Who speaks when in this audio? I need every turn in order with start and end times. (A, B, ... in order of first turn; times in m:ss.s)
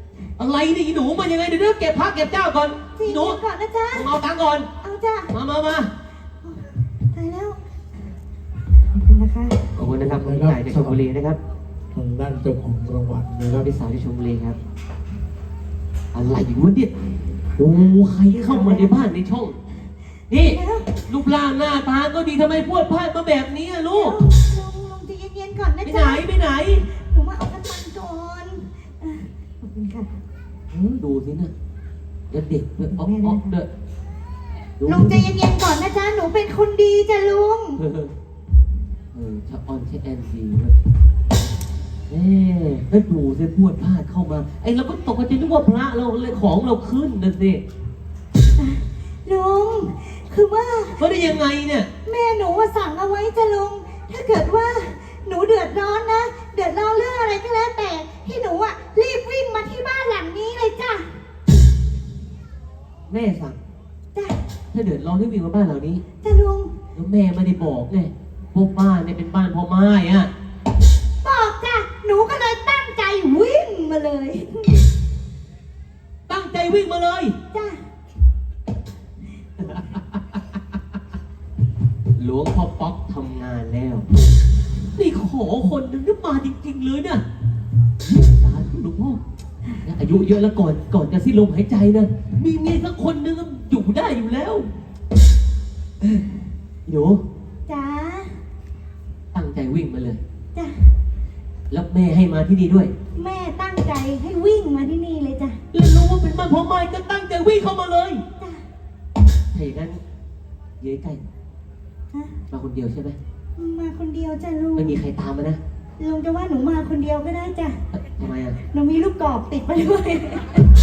0:00.4-0:03.4 A
0:03.0-0:04.1 B
0:03.9-0:04.7 A
0:04.8-0:05.3 B
0:05.3-0:05.9 A
0:06.4-0:07.6 B
0:08.9-0:09.6 B
0:09.8-0:11.4 A
0:09.8-0:11.0 C
0:11.9-0:13.7 C
0:13.6-0:14.6 A
0:16.1-0:16.9 A
0:17.6-0:19.6 A
0:18.3-0:19.0 B
0:20.3-0:24.2 A
0:20.5-0:21.0 B
0:23.9-0:26.2 B
0:25.8-0:26.8 A
0:26.9-0:30.1 B
0:30.7-0:31.5 A
0:32.3-0:33.7 A
0:32.9-0:33.5 B
0:34.8-0:35.3 A
0:34.8-0:37.8 B
0:37.8-0:38.1 A
0:39.1-0:40.7 A
0:42.1-0:47.6 A
0:48.6-0:51.1 B
0:51.0-0:51.9 A
0:52.0-1:01.2 B
1:03.1-1:03.6 A
1:04.7-1:06.0 A
1:06.2-1:06.7 B
1:06.9-1:10.3 A
1:11.2-1:14.9 B
1:16.3-1:17.3 A
1:17.5-1:17.8 B
1:19.6-1:20.4 A
1:22.2-1:24.1 A
1:25.0-1:27.2 A
1:28.0-1:29.2 A
1:29.8-1:34.7 A
1:36.9-1:37.2 A
1:37.7-1:38.4 B
1:39.3-1:40.2 A
1:40.5-1:40.9 B
1:41.7-1:42.9 A
1:43.2-1:45.6 B
1:45.7-1:48.2 A
1:48.4-1:48.6 B
1:49.5-1:50.0 A
1:50.8-1:51.2 A
1:52.1-1:52.4 B
1:52.5-1:53.2 A
1:53.6-1:55.0 B
1:54.8-1:55.6 A
1:56.0-1:57.8 B
1:57.9-1:58.6 A
1:58.6-2:00.6 B